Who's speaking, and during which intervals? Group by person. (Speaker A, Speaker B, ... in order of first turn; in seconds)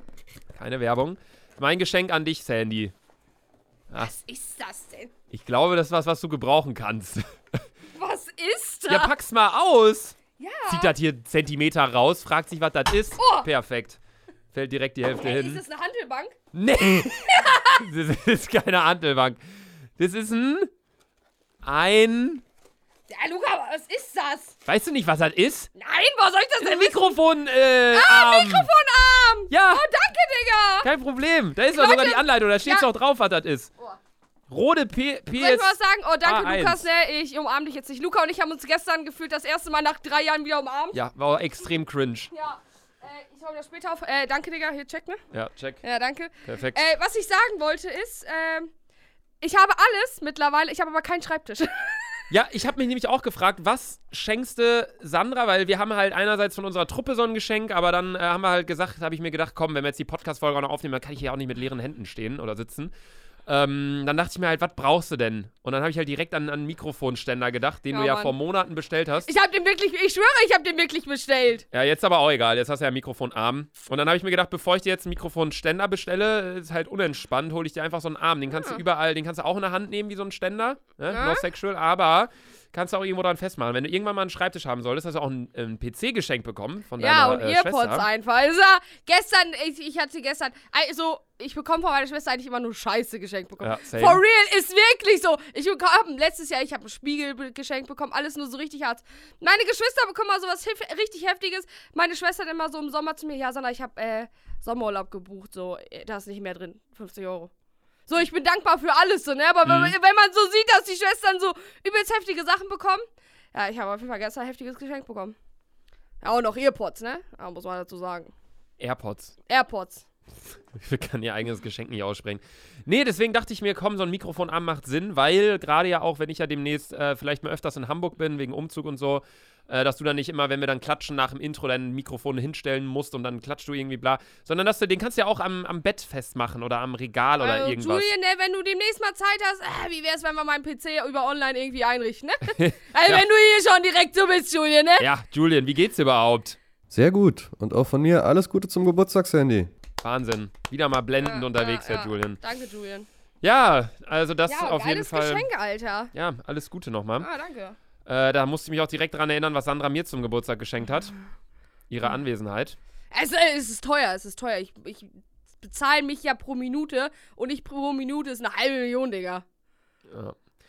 Speaker A: 0.5-2.9, 5.3-7.6, 8.9-10.2, 10.7-14.0, 14.5-15.6, 16.5-19.4, 20.0-20.7, 21.6-22.4, 24.6-25.7, 26.6-28.7, 29.5-29.8, 30.8-33.7, 34.5-36.8, 40.9-42.3, 45.3-45.8, 46.4-46.8, 52.3-62.9, 63.5-69.3, 71.7-88.1, 93.6-94.2, 109.6-110.0, 118.8-119.3, 120.7-138.1, 142.4-143.2, 145.0-146.6, 150.0-152.4, 153.4-155.5, 156.1-157.3, 158.1-161.1, 161.9-162.8, 170.1-170.4
Speaker B: 4.0-5.1, 7.9-9.1, 10.4-10.9, 13.2-13.5, 15.2-17.9, 23.1-24.6, 25.7-27.1, 27.9-30.9, 31.7-32.9, 35.3-41.0, 42.3-45.2, 45.8-48.7, 49.4-52.2, 67.9-68.3, 69.2-71.6, 78.5-78.8, 81.1-81.4, 87.0-107.5, 108.1-115.4, 116.2-118.3, 119.5-120.0, 137.4-145.1, 151.2-153.1, 154.5-156.1, 157.2-157.8, 163.1-169.4
Speaker C: 146.9-149.7